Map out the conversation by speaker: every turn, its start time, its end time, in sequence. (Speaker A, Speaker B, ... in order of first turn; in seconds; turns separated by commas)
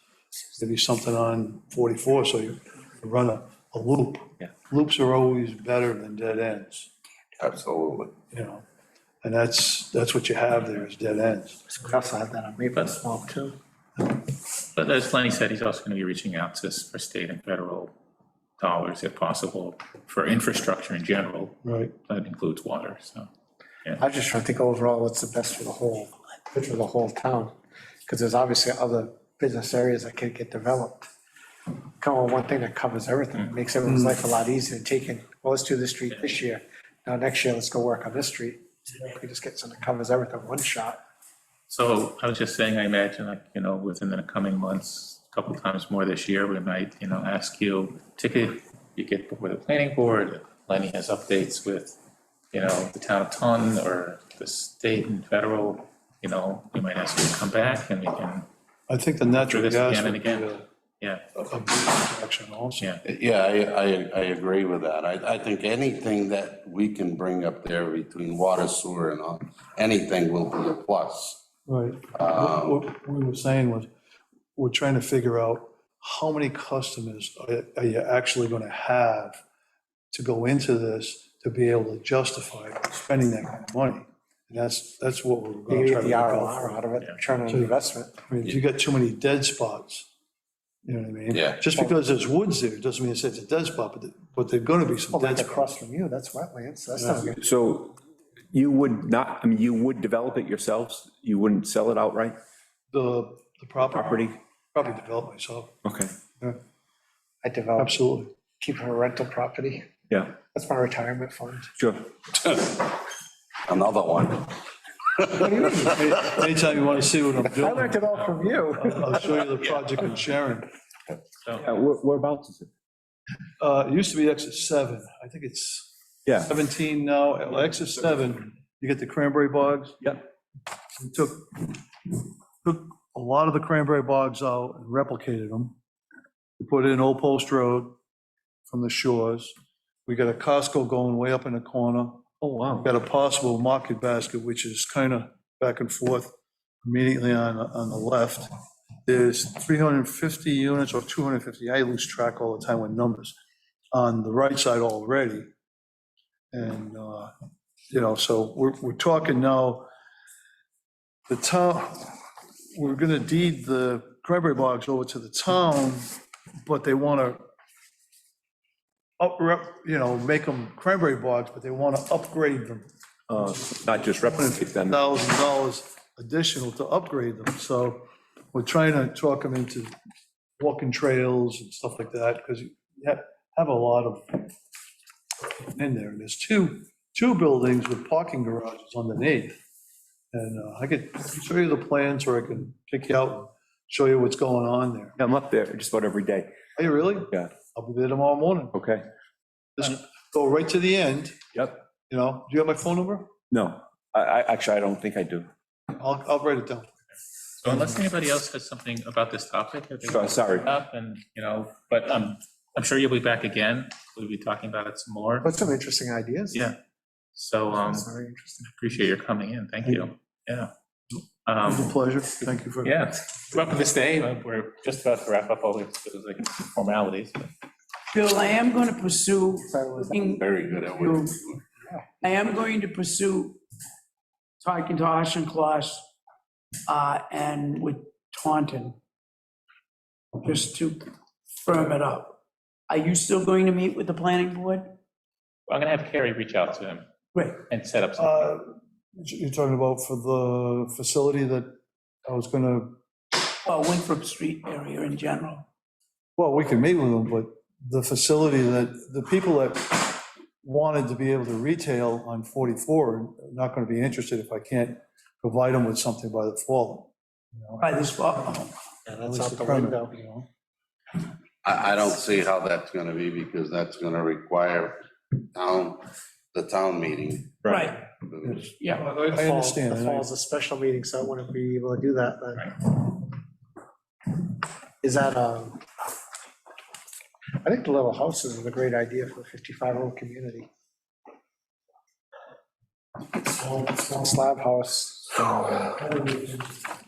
Speaker A: 0.5-6.9, Speaker B: 7.4-8.1, Speaker A: 8.3-8.6, Speaker A: 9.2-11.6, Speaker C: 11.7-13.6, Speaker D: 14.7-17.9, Speaker D: 18.6-23.3, Speaker A: 21.6-21.9, Speaker C: 24.0-27.5, Speaker C: 28.1-31.1, Speaker C: 32.0-41.0, Speaker A: 33.9-34.2, Speaker D: 41.7-52.0, Speaker D: 52.5-58.5, Speaker A: 58.9-60.6, Speaker D: 59.3-61.2, Speaker A: 61.3-62.9, Speaker B: 63.0-71.4, Speaker A: 71.7-73.9, Speaker B: 72.1-72.8, Speaker A: 74.5-79.4, Speaker A: 80.1-86.8, Speaker C: 85.7-88.1, Speaker A: 87.5-87.8, Speaker A: 88.2-90.1, Speaker A: 90.8-95.7, Speaker B: 91.3-91.7, Speaker C: 95.1-97.4, Speaker A: 97.0-97.2, Speaker E: 97.4-98.0, Speaker E: 98.5-102.4, Speaker A: 102.9-105.8, Speaker E: 103.9-104.3, Speaker E: 105.8-106.1, Speaker C: 107.4-108.0, Speaker A: 107.8-108.3, Speaker C: 108.6-109.9, Speaker E: 110.1-110.3, Speaker C: 110.5-111.7, Speaker E: 111.8-112.1, Speaker B: 112.3-113.0, Speaker B: 113.7-114.5, Speaker B: 115.2-115.7, Speaker C: 115.3-116.2, Speaker A: 115.8-118.1, Speaker C: 117.4-119.1, Speaker A: 118.7-120.7, Speaker E: 121.6-122.7, Speaker A: 123.6-125.9, Speaker E: 126.2-126.5, Speaker A: 126.4-130.1, Speaker A: 131.0-131.8, Speaker A: 132.6-135.8, Speaker A: 136.6-138.0, Speaker A: 138.7-139.5, Speaker A: 140.1-142.2, Speaker E: 142.4-142.9, Speaker A: 142.8-146.3, Speaker A: 146.8-148.5, Speaker A: 149.1-153.3, Speaker A: 153.9-155.5, Speaker A: 156.5-157.3, Speaker A: 157.9-159.9, Speaker A: 161.3-162.2, Speaker A: 162.7-166.1, Speaker A: 166.7-167.4, Speaker A: 169.2-172.9, Speaker E: 173.3-175.0, Speaker A: 174.1-179.9, Speaker A: 180.6-184.5, Speaker A: 185.7-189.6, Speaker A: 190.3-195.2, Speaker E: 195.2-196.5, Speaker A: 196.8-198.8, Speaker E: 198.7-199.0, Speaker A: 199.8-201.4, Speaker A: 202.1-203.3, Speaker E: 203.5-205.5, Speaker A: 206.0-207.0, Speaker D: 207.6-215.5, Speaker A: 207.7-207.9, Speaker E: 210.1-210.7, Speaker C: 215.4-216.7, Speaker D: 216.5-216.8, Speaker D: 217.3-218.1, Speaker C: 217.7-218.7, Speaker D: 218.7-220.7, Speaker D: 221.5-221.9, Speaker A: 221.6-223.0, Speaker D: 222.8-227.5, Speaker F: 228.1-231.4, Speaker C: 229.7-230.1, Speaker B: 230.1-231.6, Speaker F: 232.2-233.6, Speaker F: 234.6-236.0, Speaker F: 236.9-239.0, Speaker F: 240.4-241.1, Speaker F: 241.6-242.4, Speaker F: 242.9-244.9, Speaker D: 245.7-248.5, Speaker F: 247.3-247.7, Speaker A: 248.2-253.0, Speaker F: 253.6-255.7, Speaker A: 256.4-268.6, Speaker F: 267.8-268.7, Speaker C: 269.1-270.1, Speaker A: 269.3-270.5, Speaker B: 271.6-274.9, Speaker B: 275.5-278.7, Speaker F: 277.6-278.0, Speaker A: 278.4-280.3, Speaker F: 278.8-279.1, Speaker C: 279.1-283.3, Speaker C: 285.0-285.8, Speaker C: 287.6-290.7, Speaker C: 293.2-296.8